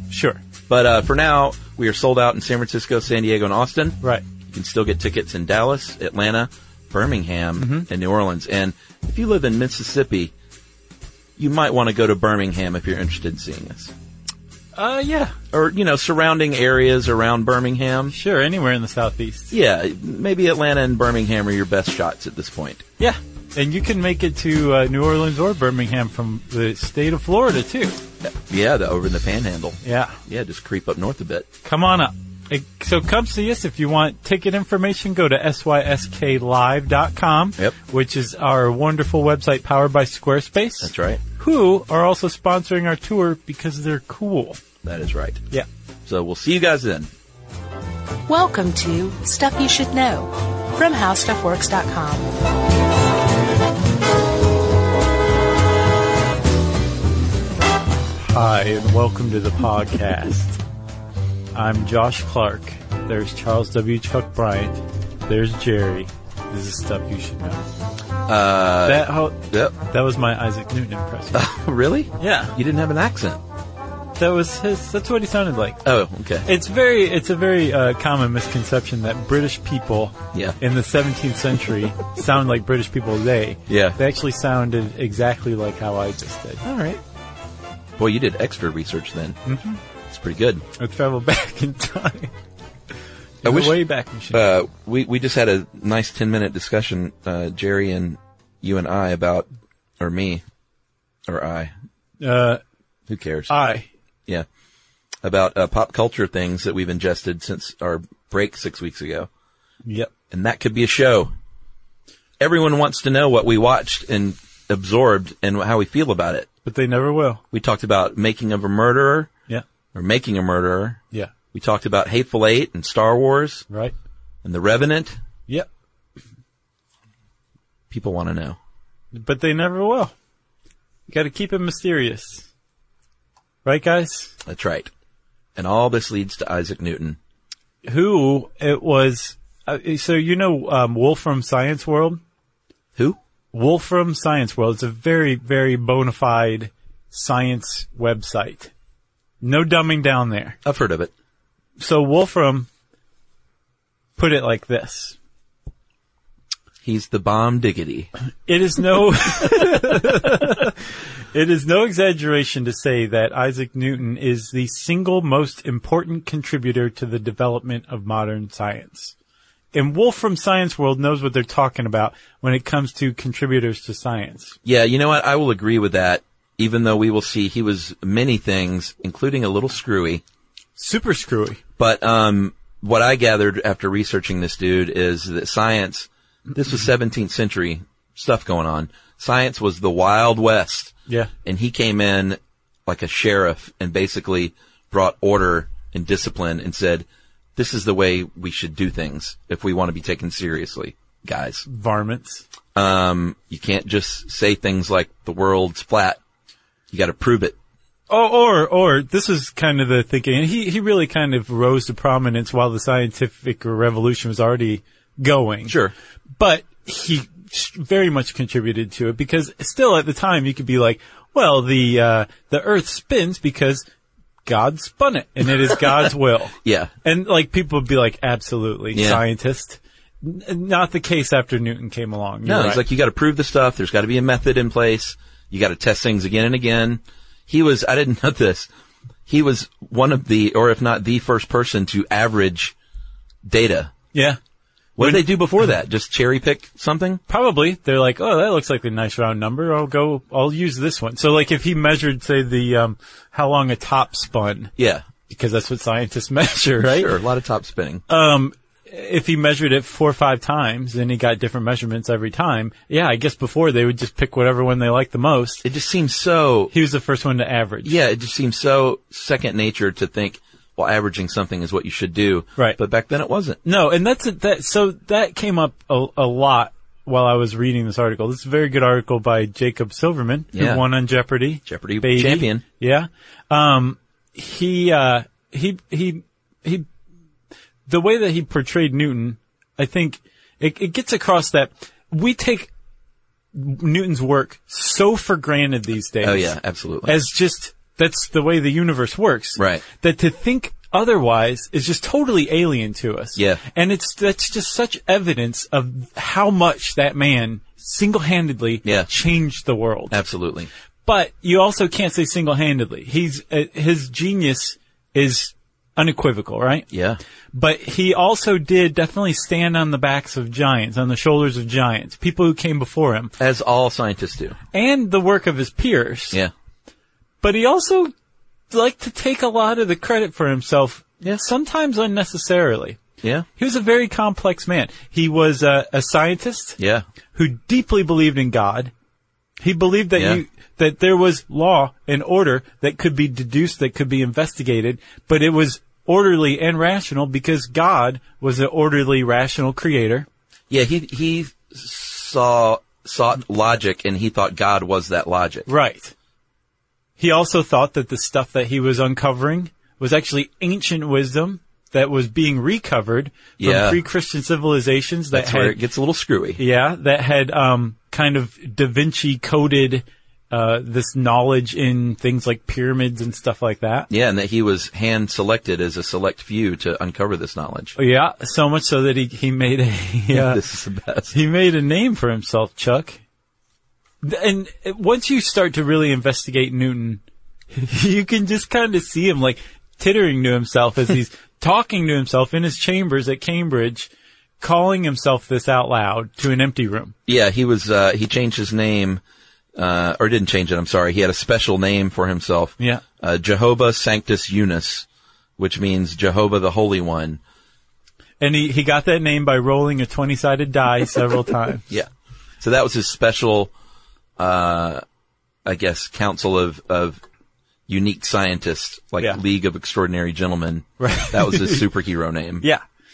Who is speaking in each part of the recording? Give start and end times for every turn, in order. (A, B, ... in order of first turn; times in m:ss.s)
0:00.1-0:00.4 A
0:00.7-0:04.0 B
0:04.5-0:10.3 B
0:07.6-0:07.9 A
0:11.4-0:13.9 B
0:14.8-0:15.4 A
0:15.5-0:18.2 B
0:18.1-0:19.5 A
0:19.5-0:22.9 B
0:23.0-0:28.0 A
0:28.2-0:31.5 B
0:29.8-0:30.2 A
0:31.6-0:44.6 A
0:40.8-0:41.2 B
0:44.8-0:45.4 B
0:46.1-0:47.1 B
0:48.3-0:52.4 C
0:58.2-1:00.6 A
1:01.5-1:07.6 A
1:08.3-1:09.8 B
1:08.8-1:11.5 A
1:11.3-1:13.4 B
1:12.2-1:12.6 A
1:14.2-1:15.8 A
1:15.8-1:16.5 B
1:16.4-1:26.6 A
1:23.7-1:24.0 B
1:26.6-1:27.0 B
1:28.0-1:29.4 B
1:29.4-1:29.8 A
1:30.1-1:30.6 B
1:30.8-1:32.3 A
1:33.4-1:34.4 A
1:33.4-1:33.8 B
1:34.3-1:39.5 B
1:40.0-1:40.4 B
1:41.3-1:41.7 B
1:42.2-1:42.6 A
1:43.1-1:43.5 B
1:43.5-1:43.9 A
1:45.2-1:49.3 B
1:49.8-1:50.1 A
1:50.3-1:51.3 B
1:52.4-1:56.5 B
1:56.6-1:57.4 A
1:57.5-1:59.3 B
1:59.9-2:01.0 B
2:01.5-2:03.7 B
2:04.4-2:05.2 B
2:07.9-2:08.6 B
2:09.1-2:10.1 A
2:11.1-2:12.5 A
2:13.6-2:14.3 A
2:14.4-2:14.9 B
2:15.6-2:17.2 B
2:17.8-2:22.2 A
2:23.5-2:28.7 A
2:29.4-2:30.6 A
2:30.6-2:31.1 B
2:31.8-2:32.7 A
2:34.2-2:35.2 A
2:36.8-2:38.1 B
2:38.5-2:49.1 A
2:49.7-2:54.6 A
2:54.6-3:00.2 B
3:00.8-3:01.6 A
3:01.8-3:10.9 B
3:11.4-3:21.6 B
3:21.6-3:22.4 A
3:22.8-3:26.2 B
3:26.9-3:27.6 B
3:28.1-3:35.8 A
3:35.7-3:35.9 B
3:36.4-3:43.9 A
3:44.4-3:52.8 A
3:46.6-3:46.9 B
3:48.9-3:49.2 B
3:52.4-3:58.7 B
3:59.3-4:02.8 B
4:03.5-4:03.9 B
4:04.1-4:04.4 A
4:05.0-4:07.2 B
4:05.0-4:05.3 A
4:07.3-4:14.7 A
4:14.8-4:15.1 B
4:15.3-4:17.2 A
4:16.8-4:18.0 B
4:18.1-4:25.6 A
4:25.6-4:26.7 B
4:26.7-4:27.9 A
4:27.8-4:33.6 B
4:33.6-4:46.9 A
4:40.5-4:40.8 B
4:41.7-4:42.6 B
4:47.9-4:52.7 A
4:53.5-5:10.1 A
4:56.2-4:57.2 B
4:59.6-4:59.8 B
5:03.4-5:03.6 B
5:10.1-5:10.7 B
5:11.1-5:16.9 A
5:16.9-5:17.2 B
5:17.5-5:23.3 A
5:23.4-5:24.6 B
5:24.7-5:26.4 A
5:27.4-5:28.1 A
5:28.7-5:33.0 A
5:33.6-5:36.8 A
5:36.8-5:37.1 B
5:37.3-5:38.9 A
5:39.6-5:50.3 A
5:40.2-5:40.4 B
5:50.7-5:55.7 B
5:55.7-5:56.1 A
5:57.2-6:05.8 A
6:03.6-6:04.0 B
6:05.3-6:06.6 B
6:06.6-6:14.1 A
6:14.1-6:18.0 B
6:18.0-6:20.6 A
6:20.3-6:21.3 B
6:21.3-6:23.2 A
6:24.2-6:34.1 A
6:34.6-6:37.2 A
6:37.3-6:39.2 B
6:39.8-6:45.1 B
6:45.6-6:47.4 B
6:48.4-6:51.9 A
6:52.6-6:53.7 B
6:54.4-6:55.0 B
6:55.6-6:57.2 B
6:57.9-7:02.6 B
7:01.0-7:01.8 A